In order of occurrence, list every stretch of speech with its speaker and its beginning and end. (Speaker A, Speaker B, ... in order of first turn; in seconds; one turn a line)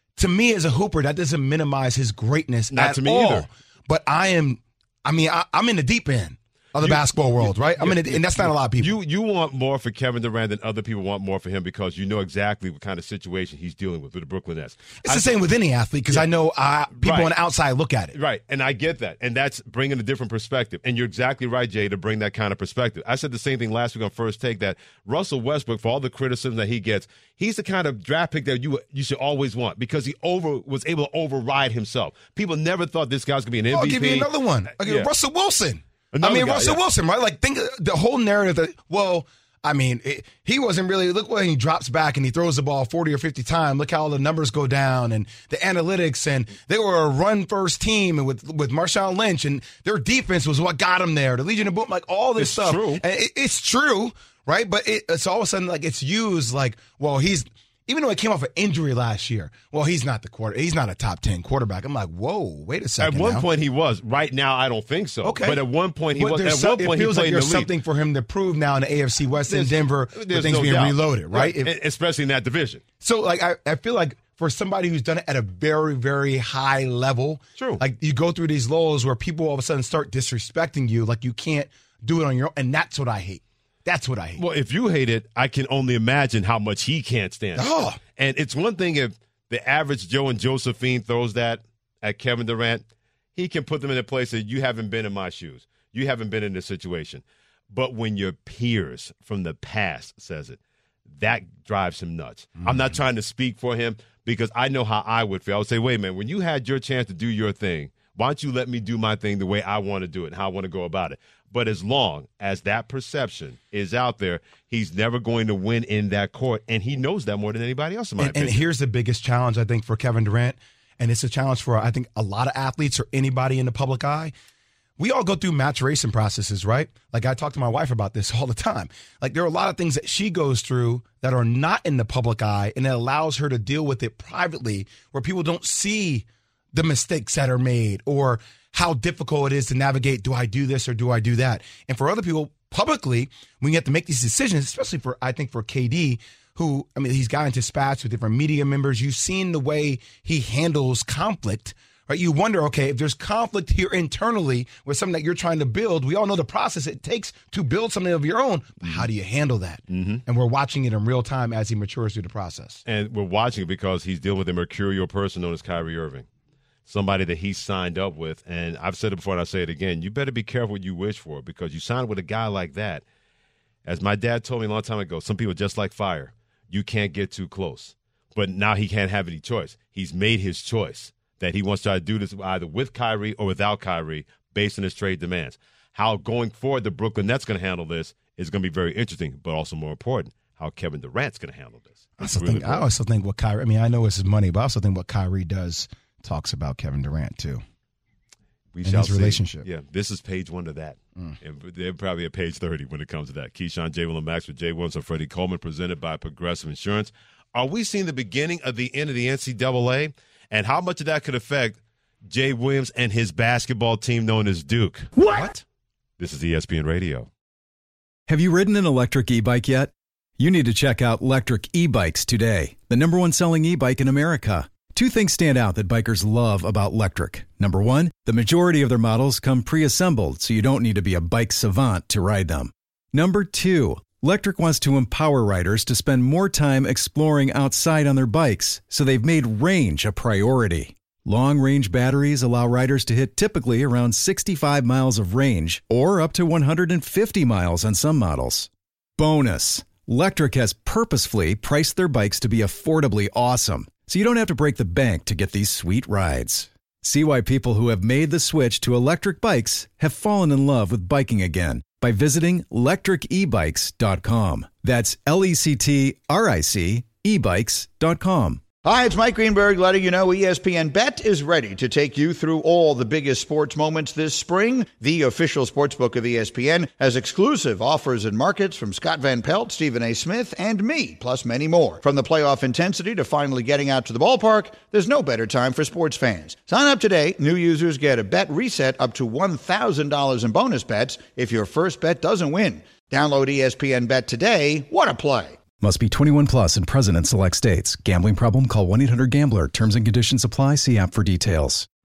Speaker A: 0.2-9.0
Speaker B: 2.7-3.5
Speaker B: 6.8-15.4
Speaker A: 15.0-18.1
Speaker B: 17.0-17.3
Speaker B: 18.1-35.1
Speaker A: 33.7-63.5
Speaker B: 36.1-36.8
Speaker B: 52.4-53.0
Speaker B: 63.0-67.7
Speaker A: 65.2-65.6
Speaker A: 66.1-71.7
Speaker B: 69.5-72.8
Speaker A: 73.0-84.4
Speaker B: 84.4-92.8
Speaker A: 87.5-88.0
Speaker B: 93.3-100.6
Speaker B: 101.1-118.6
Speaker A: 102.6-102.9
Speaker A: 118.2-124.3
Speaker A: 125.0-162.8
Speaker B: 159.9-160.2
Speaker B: 162.8-166.2
Speaker B: 166.9-173.0
Speaker B: 173.8-192.8
Speaker A: 192.2-197.6
Speaker B: 198.7-215.5
Speaker A: 198.8-199.7
Speaker B: 216.2-217.3
Speaker C: 218.3-268.6
Speaker D: 268.8-295.6
Speaker C: 295.8-301.9